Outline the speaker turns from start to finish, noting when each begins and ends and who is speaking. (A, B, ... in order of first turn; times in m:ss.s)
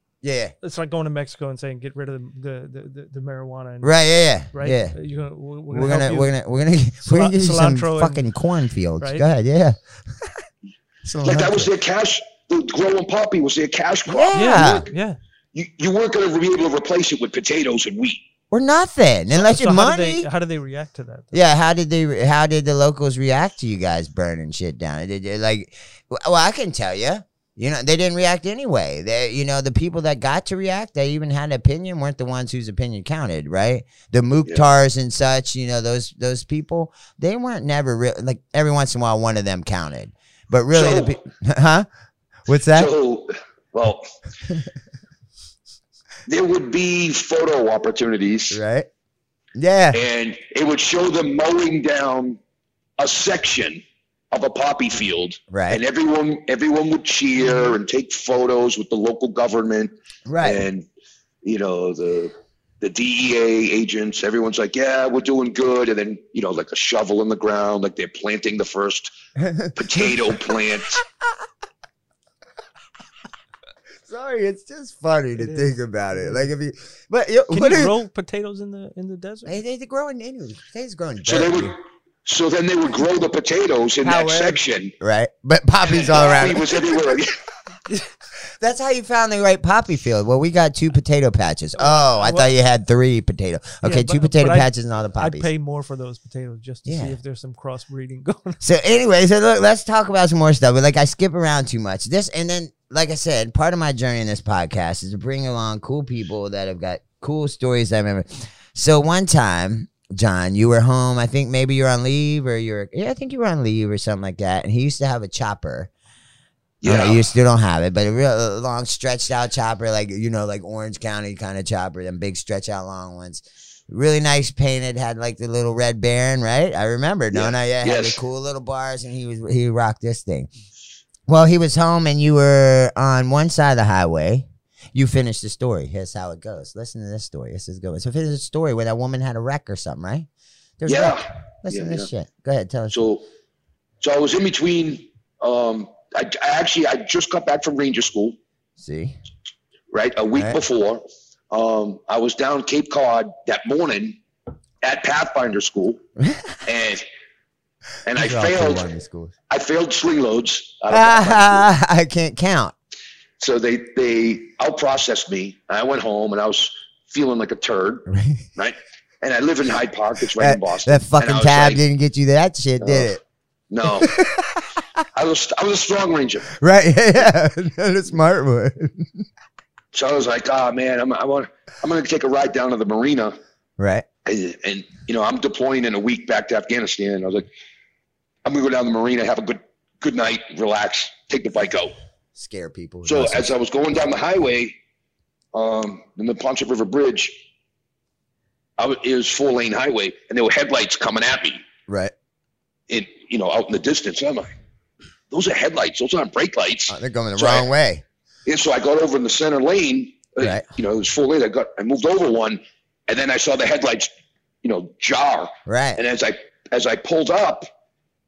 0:00.2-0:00.5 A
0:00.6-0:03.9 B
0:03.8-0:05.0 A
0:04.5-0:06.4 B
0:05.7-0:10.3 A
0:07.1-0:08.3 B
0:09.0-0:09.2 B
0:11.0-0:11.7 A
0:11.2-0:14.8 C
0:14.1-0:14.9 A
0:14.3-0:15.2 B
0:15.5-0:18.2 C
0:18.5-0:20.3 A
0:19.3-0:21.4 B
0:21.3-0:41.9 A
0:40.7-0:41.2 C
0:42.5-0:42.9 A
0:42.7-0:44.0 C
0:46.3-0:48.6 C
0:48.5-0:48.9 A
0:49.6-0:50.0 A
0:49.9-0:52.4 C
0:53.0-1:00.9 C
0:55.5-0:55.8 A
1:00.3-1:00.7 A
1:01.4-1:09.1 C
1:09.4-1:10.1 A
1:09.8-1:11.0 C
1:14.1-1:17.9 A
1:15.4-1:16.5 B
1:17.5-1:19.6 B
1:19.5-1:21.8 A
1:21.2-1:24.9 C
1:24.0-1:26.8 A
1:25.9-1:27.4 C
1:28.6-1:35.5 A
1:31.8-1:32.5 B
1:33.8-1:38.6 B
1:36.9-1:37.1 A
1:38.6-1:55.9 A
1:56.8-1:57.2 C
1:56.8-2:10.5 A
2:07.3-2:08.2 C
2:11.3-2:20.3 A
2:20.8-2:23.0 A
2:20.9-2:22.1 C
2:22.9-2:23.2 C
2:24.0-2:28.4 C
2:28.8-2:29.2 A
2:29.9-2:34.2 C
2:34.8-2:36.0 C
2:36.2-2:36.6 A
2:36.6-2:37.1 C
2:38.1-2:38.9 C
2:38.2-2:39.3 A
2:39.5-2:41.7 C
2:40.9-2:42.8 A
2:43.4-2:48.0 C
2:48.1-2:48.5 A
2:48.6-2:51.8 C
2:50.4-2:53.2 A
2:52.8-2:53.1 C
2:53.7-2:54.2 C
2:54.0-2:55.0 A
2:55.1-2:56.5 C
2:56.5-2:59.3 A
2:59.9-3:03.4 C
3:03.8-3:04.0 A
3:04.2-3:07.5 C
3:08.4-3:12.0 C
3:12.4-3:13.5 A
3:13.0-3:14.7 C
3:15.5-3:17.4 C
3:18.8-3:21.6 C
3:21.9-3:22.1 A
3:22.9-3:24.5 C
3:25.3-3:27.7 C
3:26.9-3:28.0 A
3:28.5-3:34.1 C
3:30.4-3:30.7 A
3:34.6-3:37.7 C
3:35.7-3:36.0 A